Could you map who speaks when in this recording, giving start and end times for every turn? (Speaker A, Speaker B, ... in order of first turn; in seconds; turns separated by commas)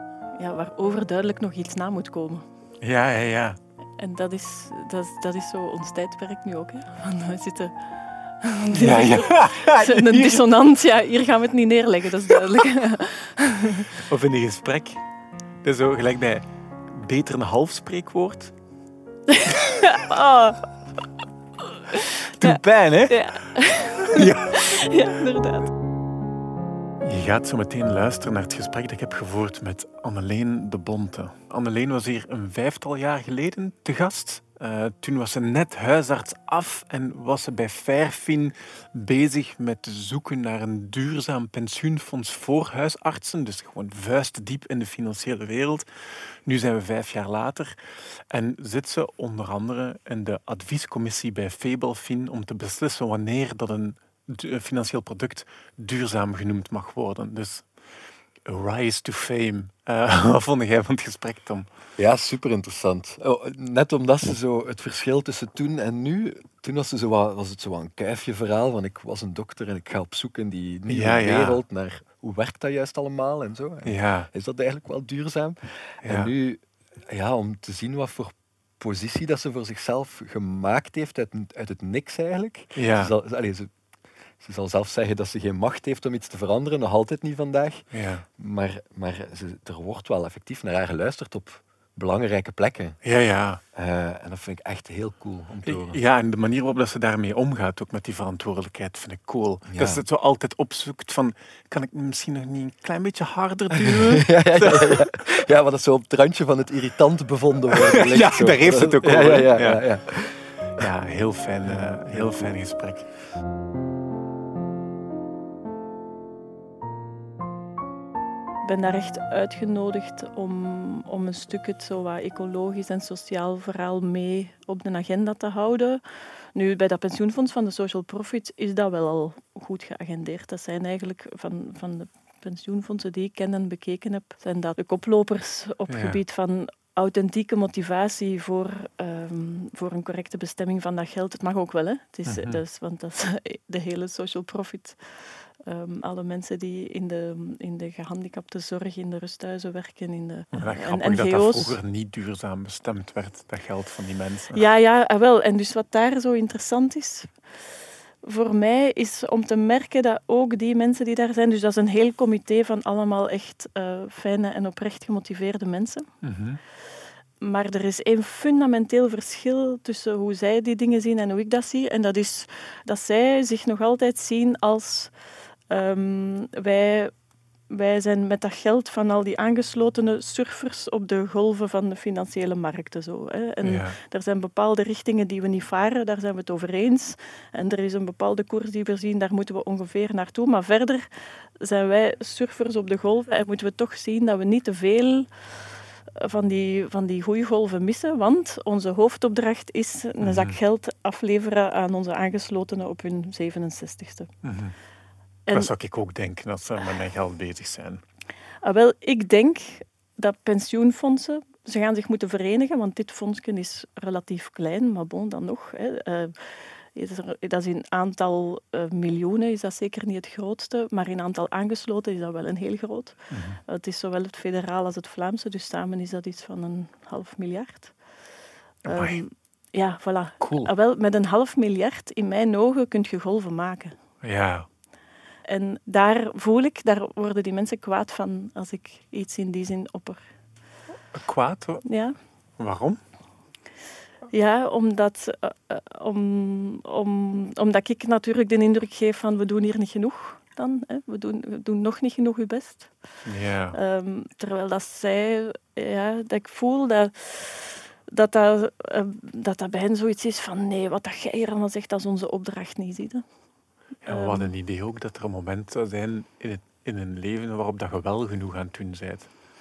Speaker A: 0.4-2.4, Speaker B: 2.8-3.6, Speaker A: 4.0-7.7, Speaker A: 8.4-13.9, Speaker B: 8.7-10.4, Speaker B: 14.0-15.0, Speaker B: 15.6-18.5, Speaker A: 19.3-20.7, Speaker B: 19.4-19.9, Speaker A: 21.9-25.7, Speaker B: 22.3-23.2, Speaker B: 24.1-24.7, Speaker B: 27.0-45.8, Speaker B: 46.5-47.8, Speaker B: 48.3-57.7, Speaker B: 58.5-61.7, Speaker C: 62.0-83.7, Speaker B: 70.9-71.6, Speaker B: 73.8-74.3, Speaker B: 76.0-76.3, Speaker B: 82.7-83.1, Speaker C: 84.4-87.9, Speaker B: 87.9-88.2, Speaker C: 88.4-93.1, Speaker B: 93.0-93.6, Speaker C: 93.7-96.0, Speaker B: 95.7-105.3, Speaker C: 99.7-100.0, Speaker C: 103.8-110.6, Speaker B: 107.7-113.1, Speaker C: 111.8-112.5, Speaker A: 118.6-126.0, Speaker A: 126.5-151.8, Speaker B: 135.9-136.2, Speaker B: 142.2-142.6, Speaker B: 150.5-154.6, Speaker A: 154.5-157.3, Speaker A: 158.2-166.1, Speaker B: 166.2-166.6, Speaker A: 167.4-175.1, Speaker A: 175.7-177.1, Speaker A: 177.7-191.1, Speaker B: 183.6-184.0, Speaker A: 191.6-204.3, Speaker B: 200.2-200.6, Speaker B: 204.4-204.7, Speaker B: 205.5-208.0, Speaker A: 208.6-227.9, Speaker B: 223.3-223.6, Speaker B: 228.8-229.2, Speaker A: 228.8-233.9, Speaker B: 230.4-230.7, Speaker B: 234.2-234.7, Speaker A: 235.4-240.2, Speaker B: 241.1-241.8, Speaker A: 241.8-242.1, Speaker B: 242.6-243.0, Speaker A: 244.3-253.0, Speaker B: 253.2-253.8, Speaker A: 253.7-263.2, Speaker A: 264.0-264.5, Speaker B: 264.0-269.3